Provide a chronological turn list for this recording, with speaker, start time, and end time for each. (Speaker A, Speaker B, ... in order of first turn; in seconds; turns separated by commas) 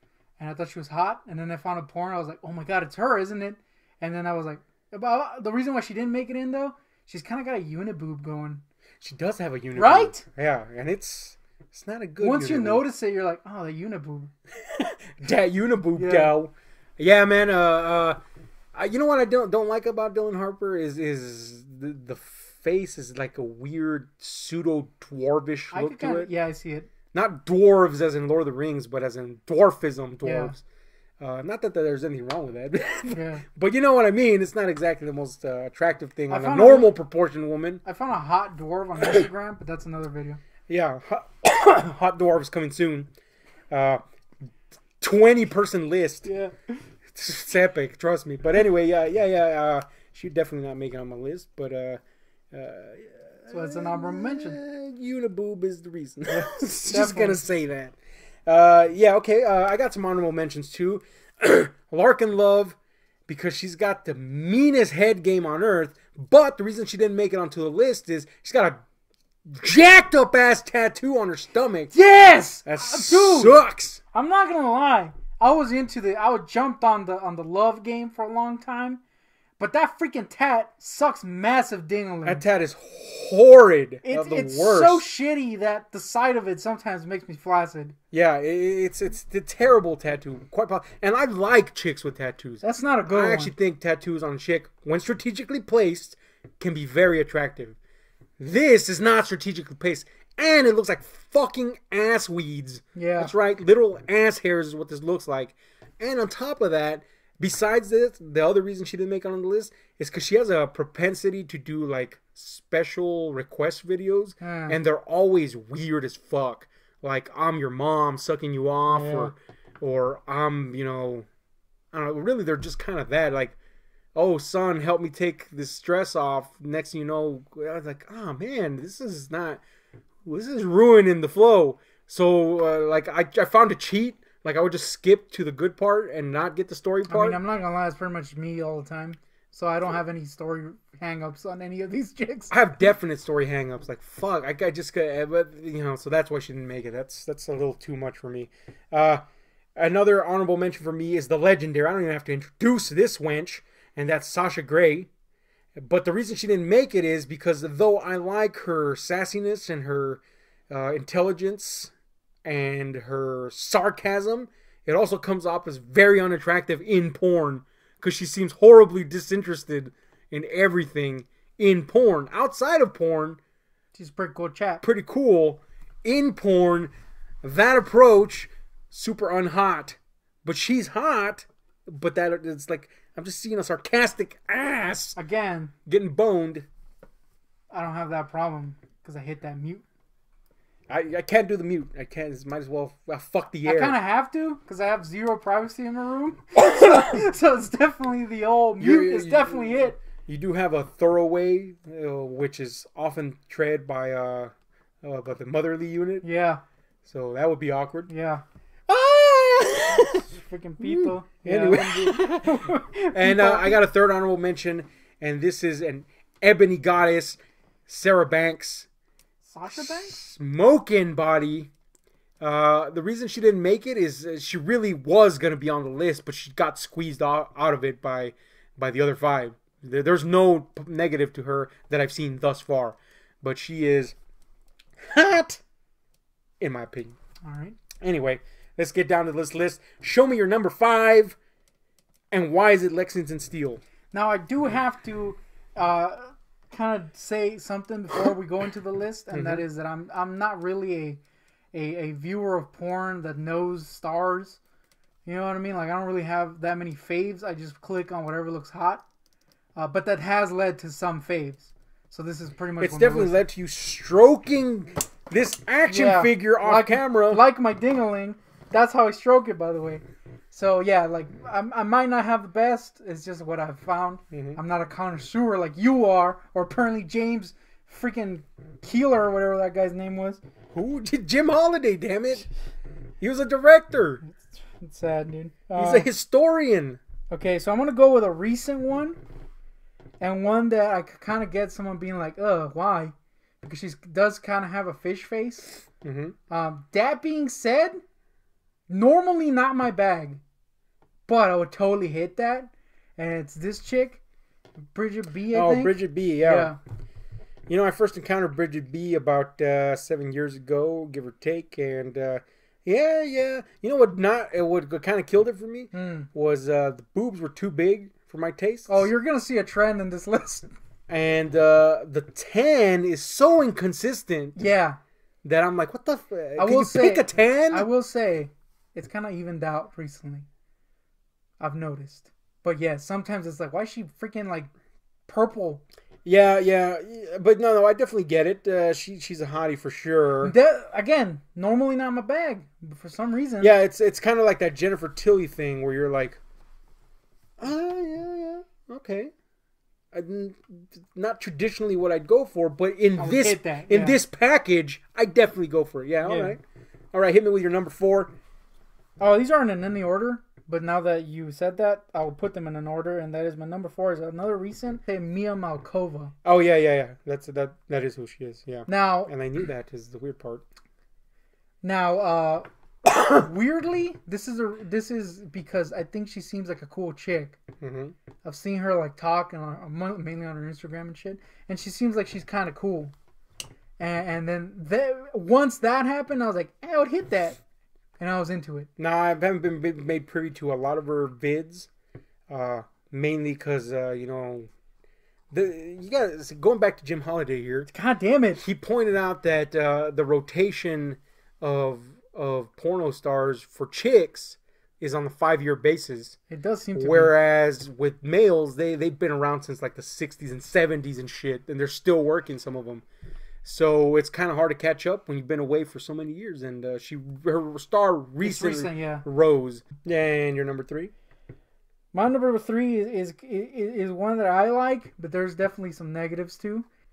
Speaker A: 0.4-8.6, Speaker B: 9.0-12.8, Speaker A: 9.8-10.2, Speaker A: 12.2-14.3, Speaker B: 14.7-18.2, Speaker A: 16.0-16.3, Speaker B: 18.7-26.3, Speaker A: 25.7-26.9, Speaker B: 27.1-30.6, Speaker A: 30.2-30.5, Speaker B: 31.2-37.8, Speaker A: 33.1-33.5, Speaker A: 36.3-36.9, Speaker A: 37.9-40.4, Speaker B: 40.7-43.1, Speaker B: 43.7-44.0, Speaker B: 45.0-46.3, Speaker A: 46.2-46.8, Speaker B: 47.1-52.0, Speaker B: 52.5-58.0, Speaker A: 53.5-54.6, Speaker A: 56.5-57.4, Speaker B: 58.5-62.8, Speaker B: 63.3-68.8, Speaker B: 69.5-71.9, Speaker A: 71.9-73.6, Speaker B: 72.7-74.0, Speaker A: 74.1-79.0, Speaker A: 79.6-82.4, Speaker B: 82.2-85.1, Speaker A: 84.0-88.0, Speaker B: 88.1-97.8, Speaker A: 92.6-93.5, Speaker B: 98.4-121.3, Speaker A: 103.0-103.3, Speaker A: 114.4-114.8, Speaker A: 118.9-119.3, Speaker B: 121.9-123.6, Speaker B: 124.2-129.6, Speaker B: 130.2-137.4, Speaker A: 137.1-142.6, Speaker B: 142.5-149.2, Speaker B: 149.8-155.1, Speaker B: 155.8-161.9, Speaker B: 162.4-173.4, Speaker A: 173.9-174.8, Speaker B: 174.8-176.9, Speaker B: 177.4-185.2, Speaker A: 185.2-185.7, Speaker B: 185.9-186.7, Speaker A: 187.7-189.8, Speaker B: 190.9-194.0, Speaker A: 193.7-200.0, Speaker B: 196.6-197.3, Speaker B: 198.8-204.5, Speaker B: 205.0-206.3, Speaker A: 206.2-206.6, Speaker B: 207.1-208.1, Speaker A: 208.1-208.4, Speaker B: 208.9-210.2, Speaker A: 209.9-213.8, Speaker B: 210.8-218.9, Speaker A: 219.4-220.2, Speaker B: 219.7-221.7, Speaker B: 222.4-234.2, Speaker B: 235.0-235.6, Speaker B: 236.6-237.2, Speaker A: 237.4-237.8, Speaker B: 238.0-241.4, Speaker B: 242.3-243.8, Speaker A: 244.1-251.2, Speaker B: 249.3-249.6, Speaker A: 251.7-254.6, Speaker A: 255.3-259.0, Speaker A: 259.8-263.4, Speaker B: 262.8-267.4, Speaker A: 265.9-280.4, Speaker B: 274.3-274.6, Speaker B: 280.7-282.5, Speaker B: 283.2-284.2, Speaker A: 284.3-286.1, Speaker B: 285.8-287.0, Speaker A: 287.3-289.2, Speaker A: 290.2-295.8, Speaker B: 296.0-296.4, Speaker A: 296.5-298.0, Speaker A: 298.9-300.4, Speaker A: 301.3-304.2, Speaker A: 304.9-306.8, Speaker B: 305.5-306.8, Speaker B: 307.7-319.1, Speaker A: 315.9-316.3, Speaker A: 318.9-320.7, Speaker B: 321.1-324.6, Speaker A: 324.6-325.0, Speaker B: 325.4-327.9, Speaker A: 326.6-330.5, Speaker A: 331.6-334.7, Speaker A: 335.3-335.8, Speaker B: 336.2-340.5, Speaker A: 340.4-343.7, Speaker B: 343.6-346.4, Speaker B: 347.6-349.3, Speaker B: 350.1-356.6, Speaker A: 353.2-354.2, Speaker A: 356.2-356.6, Speaker B: 357.1-358.4, Speaker A: 359.2-366.3, Speaker B: 366.4-370.6, Speaker A: 368.9-369.3, Speaker A: 371.8-377.6, Speaker B: 377.8-378.1, Speaker A: 378.4-383.1, Speaker A: 384.0-387.6, Speaker A: 388.2-388.9, Speaker B: 389.0-391.9, Speaker B: 392.5-394.7, Speaker B: 395.5-397.9, Speaker A: 397.9-398.6, Speaker B: 398.6-406.4, Speaker A: 406.5-407.3, Speaker B: 406.9-413.0, Speaker B: 413.6-421.1, Speaker A: 418.4-419.2, Speaker A: 422.1-426.9